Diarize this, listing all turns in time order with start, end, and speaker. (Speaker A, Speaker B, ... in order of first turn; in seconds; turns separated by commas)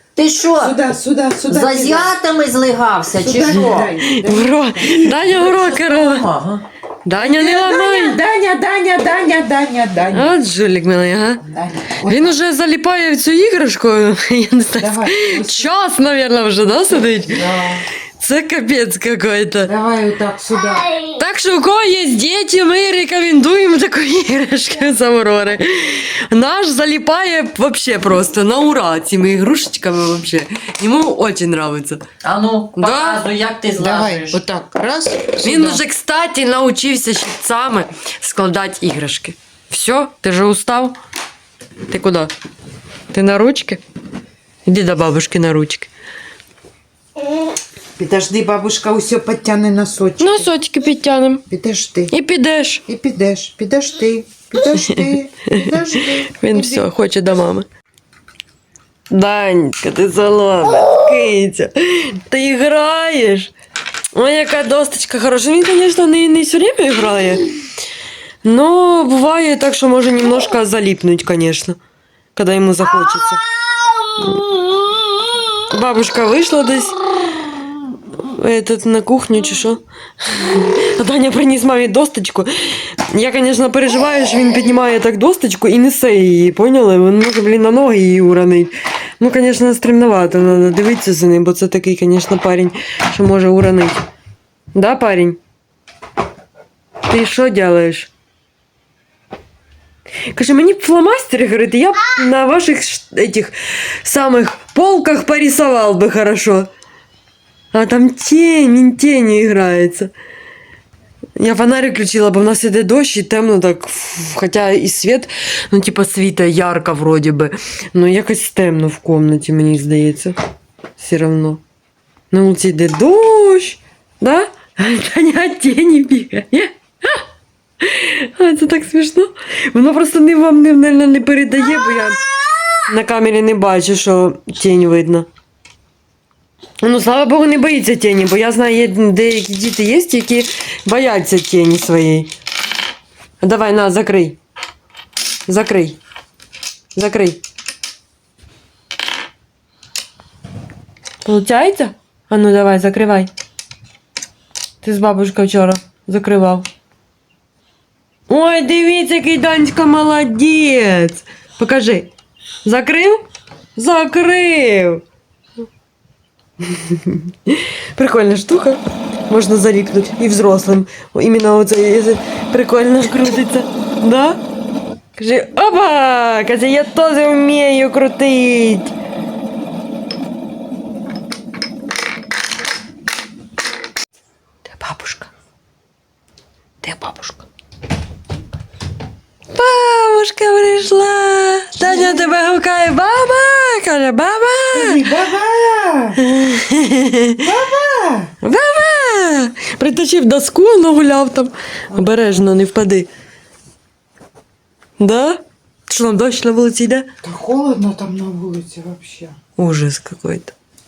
Speaker A: 0.1-0.8, Speaker B: 0.2-0.7, Speaker C: 0.6-2.2, Speaker A: 1.5-3.9, Speaker B: 1.5-3.9, Speaker C: 3.1-5.2, Speaker D: 4.0-6.2, Speaker B: 5.3-6.6, Speaker D: 7.0-8.2, Speaker C: 7.2-10.4, Speaker D: 10.1-11.4, Speaker C: 11.4-12.3, Speaker D: 12.1-17.5, Speaker C: 14.8-15.7, Speaker C: 17.3-17.8, Speaker D: 18.2-19.7, Speaker C: 19.6-21.0, Speaker D: 21.1-32.0, Speaker B: 32.2-34.4, Speaker D: 32.8-33.3, Speaker C: 33.8-35.8, Speaker D: 35.4-41.0, Speaker D: 41.9-42.3, Speaker D: 43.1-43.8, Speaker D: 44.6-45.9, Speaker C: 48.0-50.5, Speaker D: 50.2-51.4, Speaker C: 51.5-52.1, Speaker D: 52.1-52.8, Speaker C: 52.9-56.9, Speaker D: 54.7-57.7, Speaker D: 59.1-63.5, Speaker D: 64.2-67.5, Speaker D: 68.4-71.8, Speaker D: 72.3-73.4, Speaker D: 74.2-75.0, Speaker D: 75.5-77.0, Speaker D: 78.2-94.0, Speaker D: 94.7-95.4, Speaker D: 97.0-98.1, Speaker D: 100.3-106.7, Speaker D: 107.7-110.1, Speaker D: 111.4-120.4, Speaker D: 121.0-121.6, Speaker D: 122.3-127.2, Speaker D: 127.8-135.3, Speaker D: 136.8-142.3, Speaker D: 143.4-144.4, Speaker D: 145.5-146.0, Speaker D: 146.9-147.4, Speaker D: 151.2-153.3, Speaker D: 154.8-156.7, Speaker D: 158.3-162.1, Speaker D: 162.6-163.2, Speaker D: 163.8-165.0, Speaker D: 166.6-174.4, Speaker D: 175.2-178.9, Speaker D: 184.7-185.3, Speaker D: 186.8-187.4, Speaker D: 189.5-195.1, Speaker C: 191.8-192.3, Speaker C: 194.7-196.2, Speaker D: 196.2-197.4, Speaker C: 197.4-198.3, Speaker D: 198.4-203.1, Speaker D: 205.0-207.1, Speaker C: 207.2-209.4, Speaker D: 209.6-210.5